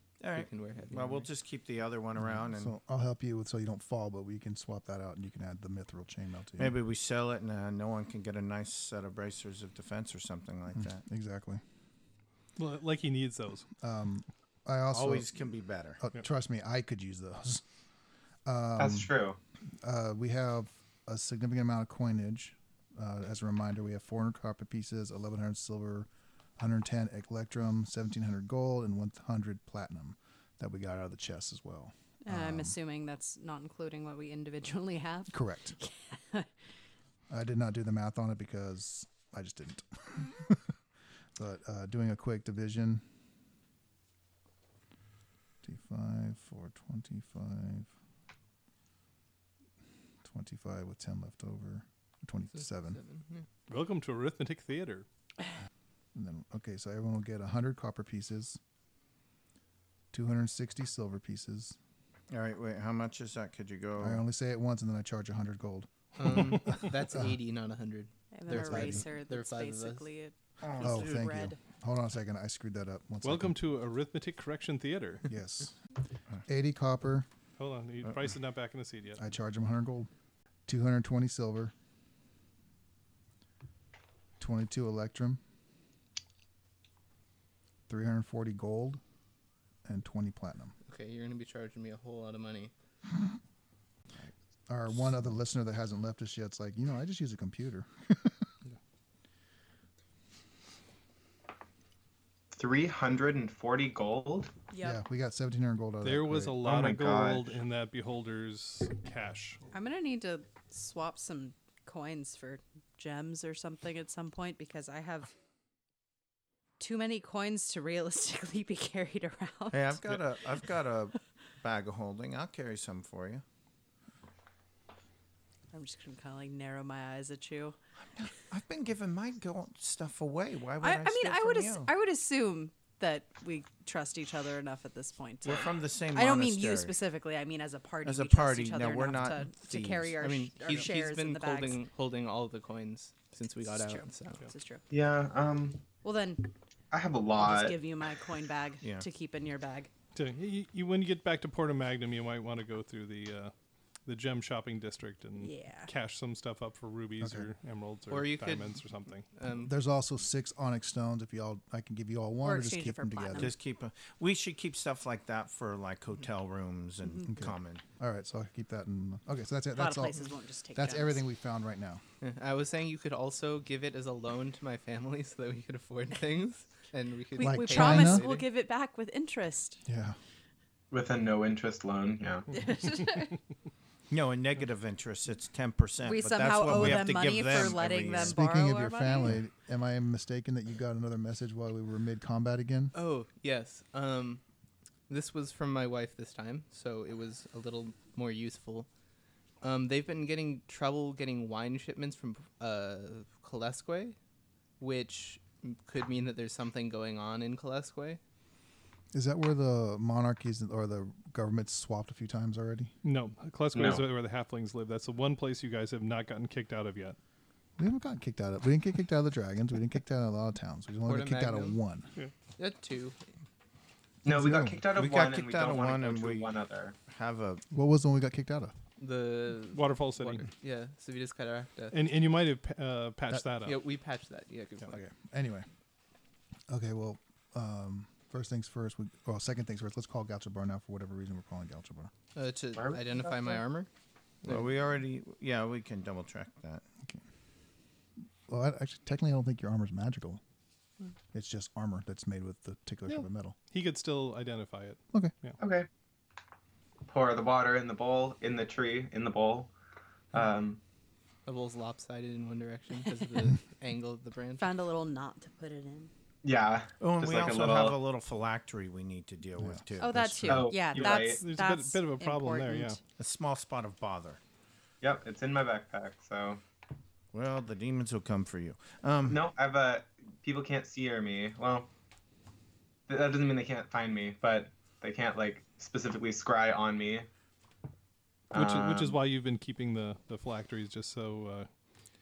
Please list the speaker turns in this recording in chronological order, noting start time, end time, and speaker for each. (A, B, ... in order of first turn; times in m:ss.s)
0:00.2-0:02.7 A
0:00.3-0:01.3 B
0:02.2-0:06.8 C
0:06.6-0:11.0 A
0:10.7-0:11.6 C
0:12.6-0:13.7 D
0:13.8-0:15.3 C
0:14.9-0:16.0 A
0:16.0-0:17.6 C
0:18.4-0:19.1 C
0:18.8-0:19.4 E
0:19.8-0:32.8 C
0:32.2-0:36.5 F
0:35.3-0:35.8 C
0:37.3-0:40.7 C
0:41.3-0:43.0 C
0:45.6-0:47.9 C
0:50.2-0:53.0 C
0:52.5-0:53.5 B
0:53.7-0:55.0 D
0:56.1-0:58.6 C
1:00.1-1:01.8 C
1:02.3-1:04.2 A
1:04.0-1:07.3 C
1:06.2-1:10.1 B
1:08.3-1:11.6 F
1:08.5-1:09.0 C
1:10.6-1:11.3 A
1:10.8-1:13.6 C
1:13.2-1:15.3 D
1:15.3-1:15.8 C
1:16.4-1:17.3 C
1:17.6-1:19.2 D
1:19.2-1:20.1 C
1:20.7-1:21.7 C
1:24.4-1:25.4 C
1:27.9-1:29.0 C
1:29.8-1:30.7 C
1:30.8-1:32.7 B
1:34.7-1:38.4 C
1:42.5-1:44.5 E
1:44.7-1:45.0 F
1:44.8-1:46.6 C
1:46.0-1:49.6 D
1:46.6-1:47.5 E
1:49.7-1:55.3 F
1:56.8-2:00.1 F
1:59.7-2:03.4 A
2:05.7-2:07.8 F
2:08.0-2:11.9 A
2:10.8-2:21.8 F
2:15.4-2:17.0 A
2:18.0-2:20.2 A
2:20.2-2:24.4 B
2:23.7-2:24.8 F
2:24.9-2:25.8 E
2:26.0-2:26.5 F
2:26.9-2:27.8 E
2:27.4-2:29.9 F
2:28.8-2:29.0 A
2:30.1-2:33.5 D
2:34.0-2:39.3 D
2:35.4-2:35.9 F
2:37.2-2:37.5 C
2:38.1-2:39.7 B
2:39.5-2:43.5 C
2:42.4-2:43.5 F
2:43.3-2:47.8 A
2:47.3-2:52.0 C
2:49.8-2:51.2 F
2:52.2-2:58.4 B
2:57.3-2:59.8 F
2:57.4-2:58.2 C
2:59.8-3:00.2 C
3:00.9-3:02.5 E
3:02.5-3:03.3 F
3:04.1-3:08.4 A
3:06.0-3:09.3 F
3:06.7-3:07.1 C
3:08.1-3:12.9 C
3:12.9-3:14.4 B
3:15.1-3:18.9 B
3:19.6-3:24.2 B
3:24.8-3:28.2 B
3:29.1-3:32.9 C
3:33.0-3:37.2 D
3:33.7-3:34.0 E
3:37.8-3:42.1 C
3:41.0-3:41.8 B
3:42.6-3:43.2 B
3:44.2-3:44.8 C
3:44.2-3:47.0 E
3:44.9-3:46.5 A
3:47.1-3:47.6 A
3:47.7-3:48.7 C
3:49.0-3:52.0 B
3:49.7-3:50.5 D
3:51.9-3:53.8 D
3:53.6-3:55.0 B
3:54.8-3:55.7 C
3:56.7-4:02.1 C
4:02.3-4:03.9 B
4:02.8-4:03.6 E
4:04.4-4:04.7 B
4:04.4-4:06.8 A
4:08.5-4:10.4 C
4:11.3-4:13.5 C
4:13.1-4:15.6 D
4:15.6-4:15.9 E
4:17.1-4:19.7 E
4:20.3-4:20.8 E
4:21.4-4:24.7 B
4:24.6-4:26.1 F
4:26.4-4:28.0 E
4:27.0-4:30.7 A
4:29.6-4:30.5 C
4:30.0-4:33.0 F
4:30.4-4:31.4 E
4:30.9-4:33.0 D
4:33.2-4:34.4 A
4:35.0-4:36.6 E
4:37.3-4:39.4 A
4:39.3-4:41.9 E
4:43.1-4:47.3 E
4:48.5-4:49.2 E
4:48.5-4:51.7 D